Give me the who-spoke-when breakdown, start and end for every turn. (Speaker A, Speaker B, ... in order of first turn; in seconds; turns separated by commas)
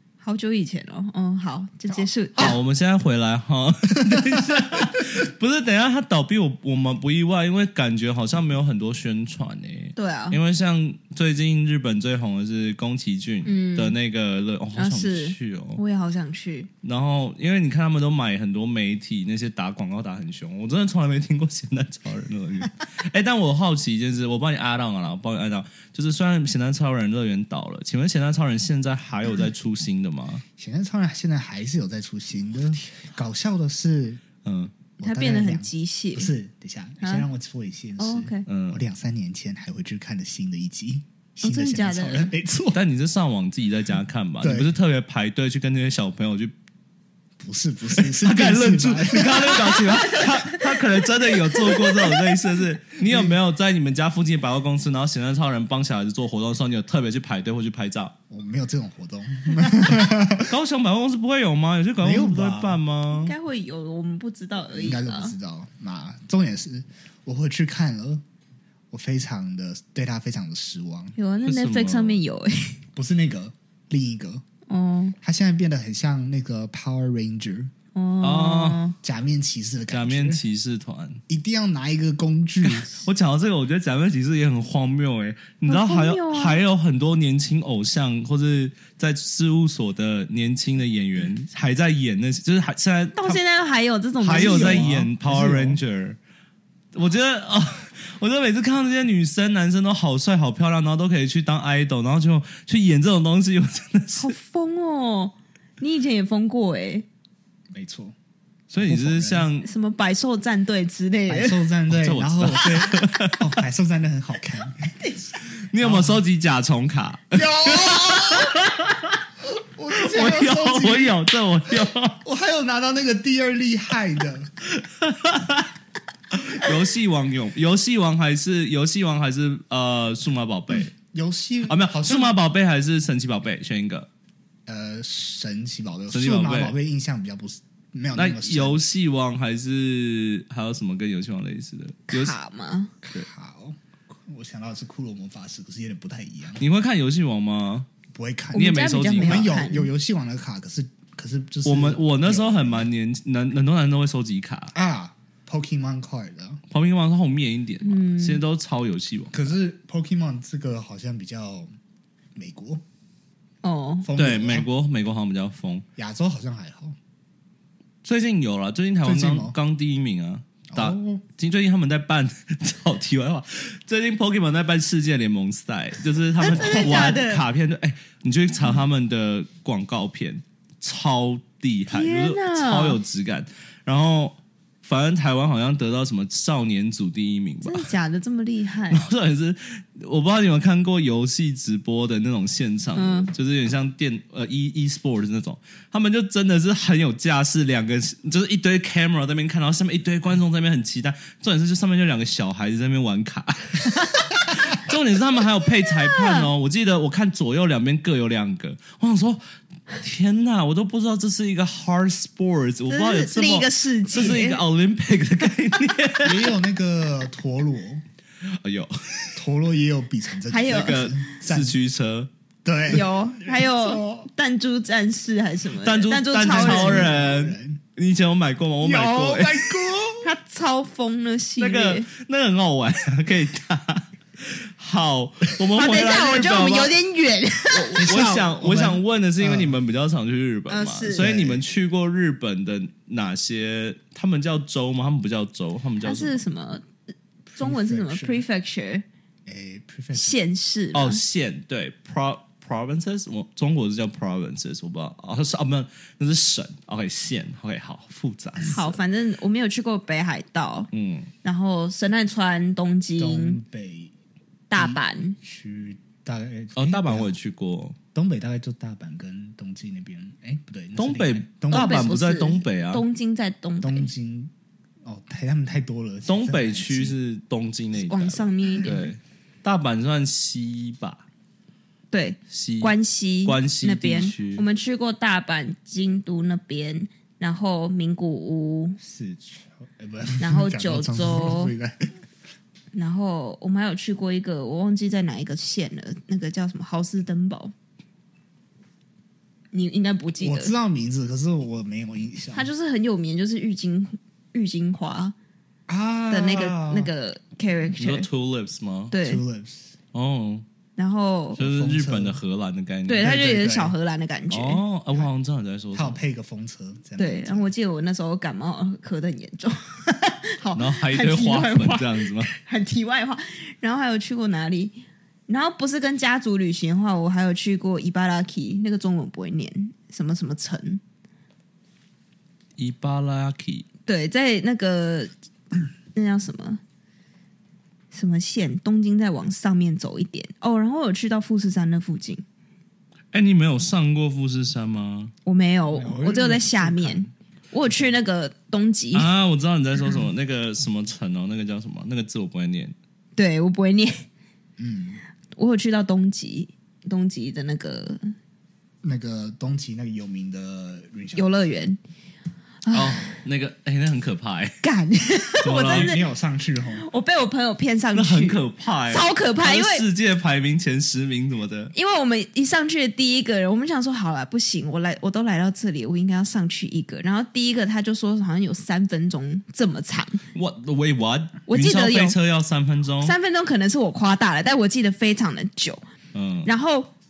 Speaker A: 0.2-2.6, Speaker B: 2.4-15.8, Speaker C: 4.1-4.8, Speaker A: 9.9-10.4, Speaker A: 13.4-13.9, Speaker A: 14.8-16.7, Speaker B: 16.8-30.4, Speaker C: 30.6-34.2, Speaker B: 34.4-34.7, Speaker A: 35.0-36.3, Speaker C: 35.0-42.8, Speaker A: 37.0-37.2, Speaker A: 38.0-38.5, Speaker B: 38.5-38.8, Speaker A: 41.4-42.3, Speaker B: 42.7-46.5, Speaker C: 44.4-44.7, Speaker C: 47.4-50.0, Speaker B: 47.9-58.1, Speaker A: 49.6-50.7, Speaker A: 51.5-52.2, Speaker C: 53.0-53.4, Speaker C: 58.3-60.5, Speaker B: 60.0-63.3, Speaker C: 62.0-62.8, Speaker A: 63.1-65.3, Speaker C: 64.7-68.2, Speaker C: 68.9-71.1, Speaker A: 71.2-72.8, Speaker B: 71.4-72.2, Speaker C: 73.0-74.4, Speaker A: 74.7-75.2, Speaker C: 75.2-77.7, Speaker A: 77.9-79.0, Speaker B: 78.2-78.8, Speaker C: 79.0-80.4, Speaker B: 79.9-81.2, Speaker C: 81.3-82.9, Speaker B: 82.6-93.4, Speaker A: 85.6-86.6, Speaker A: 93.2-94.9, Speaker B: 94.2-96.2, Speaker C: 94.2-95.8, Speaker B: 96.9-104.3, Speaker A: 104.2-107.1, Speaker C: 107.7-108.1, Speaker B: 108.7-109.7, Speaker C: 108.8-109.5, Speaker A: 109.6-111.6, Speaker C: 111.3-115.0, Speaker B: 111.9-113.5, Speaker A: 115.0-115.3, Speaker B: 115.7-119.2, Speaker C: 115.8-116.2, Speaker C: 117.3-118.6, Speaker C: 119.5-121.2, Speaker B: 119.9-122.2, Speaker C: 122.2-124.5, Speaker B: 124.7-125.7, Speaker B: 126.3-130.9, Speaker C: 130.9-132.4, Speaker B: 131.7-134.1, Speaker C: 134.7-138.9, Speaker B: 136.1-136.7, Speaker B: 138.1-142.3, Speaker A: 142.1-142.9, Speaker C: 143.0-146.6, Speaker B: 146.6-147.9, Speaker C: 148.1-152.9, Speaker A: 148.5-149.9, Speaker B: 148.5-149.5, Speaker B: 151.6-154.7, Speaker C: 154.7-156.6, Speaker B: 156.7-159.6, Speaker A: 157.8-158.4, Speaker C: 159.3-161.7, Speaker C: 162.3-162.8, Speaker A: 163.6-164.1, Speaker C: 164.0-164.7, Speaker B: 164.2-165.8, Speaker C: 165.9-167.0, Speaker B: 168.0-187.9, Speaker C: 169.0-169.6, Speaker C: 170.7-171.2, Speaker A: 176.4-177.4, Speaker C: 176.5-177.2, Speaker A: 181.9-183.0, Speaker A: 187.6-189.1, Speaker B: 188.9-216.5, Speaker A: 192.9-193.3, Speaker A: 206.0-206.5, Speaker A: 212.9-214.6, Speaker C: 216.2-218.0, Speaker B: 218.4-219.4, Speaker C: 219.3-221.8, Speaker A: 220.5-221.0, Speaker B: 220.7-222.3, Speaker C: 222.6-224.3, Speaker A: 222.9-227.1, Speaker B: 225.8-230.0, Speaker C: 226.4-227.8, Speaker C: 228.8-230.3, Speaker A: 230.2-232.1, Speaker B: 231.6-236.9, Speaker A: 235.7-238.1, Speaker B: 237.8-246.4, Speaker C: 237.9-239.8, Speaker A: 240.7-241.3, Speaker C: 241.1-241.6, Speaker A: 246.0-246.8, Speaker A: 247.5-249.0, Speaker C: 247.6-248.4, Speaker C: 249.4-250.4, Speaker A: 250.1-251.2, Speaker B: 250.9-259.0, Speaker A: 258.6-260.9, Speaker B: 260.9-261.3, Speaker A: 261.4-263.6, Speaker C: 263.2-264.1, Speaker A: 264.7-265.4, Speaker C: 264.7-267.4, Speaker B: 266.8-268.0, Speaker C: 268.1-272.2, Speaker B: 270.9-273.0, Speaker A: 271.7-274.1, Speaker C: 273.8-274.5, Speaker C: 275.0-277.1, Speaker B: 276.2-281.2, Speaker A: 278.0-279.1, Speaker A: 282.1-289.0, Speaker B: 282.5-284.6, Speaker C: 289.0-292.1, Speaker A: 290.4-291.7, Speaker A: 292.9-297.7, Speaker A: 299.7-300.7, Speaker C: 300.4-302.7, Speaker A: 302.5-305.3, Speaker C: 305.9-307.1, Speaker A: 306.3-308.3, Speaker B: 308.0-309.1, Speaker A: 309.1-309.4, Speaker C: 309.2-309.9, Speaker B: 310.1-310.6, Speaker A: 311.0-311.6, Speaker C: 311.6-312.4, Speaker B: 311.6-313.4, Speaker A: 313.1-314.8, Speaker C: 313.2-313.9, Speaker B: 314.5-316.2, Speaker C: 315.9-317.7, Speaker A: 317.2-325.0, Speaker B: 320.7-322.5, Speaker A: 325.5-331.0, Speaker B: 332.8-333.9, Speaker A: 334.1-335.3, Speaker A: 336.1-336.8, Speaker A: 338.1-342.4, Speaker B: 343.3-345.3, Speaker A: 345.4-349.3, Speaker C: 345.9-347.3, Speaker C: 347.9-348.1, Speaker B: 349.1-352.9, Speaker A: 353.4-354.2, Speaker C: 354.8-355.2, Speaker A: 355.6-358.3, Speaker C: 359.0-361.7, Speaker A: 361.3-362.0, Speaker A: 362.9-363.3, Speaker B: 362.9-364.8, Speaker A: 364.8-366.2, Speaker B: 365.6-366.1, Speaker C: 365.7-367.1, Speaker A: 367.0-370.0, Speaker B: 368.1-371.9, Speaker A: 371.9-380.4, Speaker B: 380.5-383.3, Speaker A: 381.7-382.4, Speaker A: 383.2-386.0, Speaker B: 386.3-386.7, Speaker A: 386.6-387.1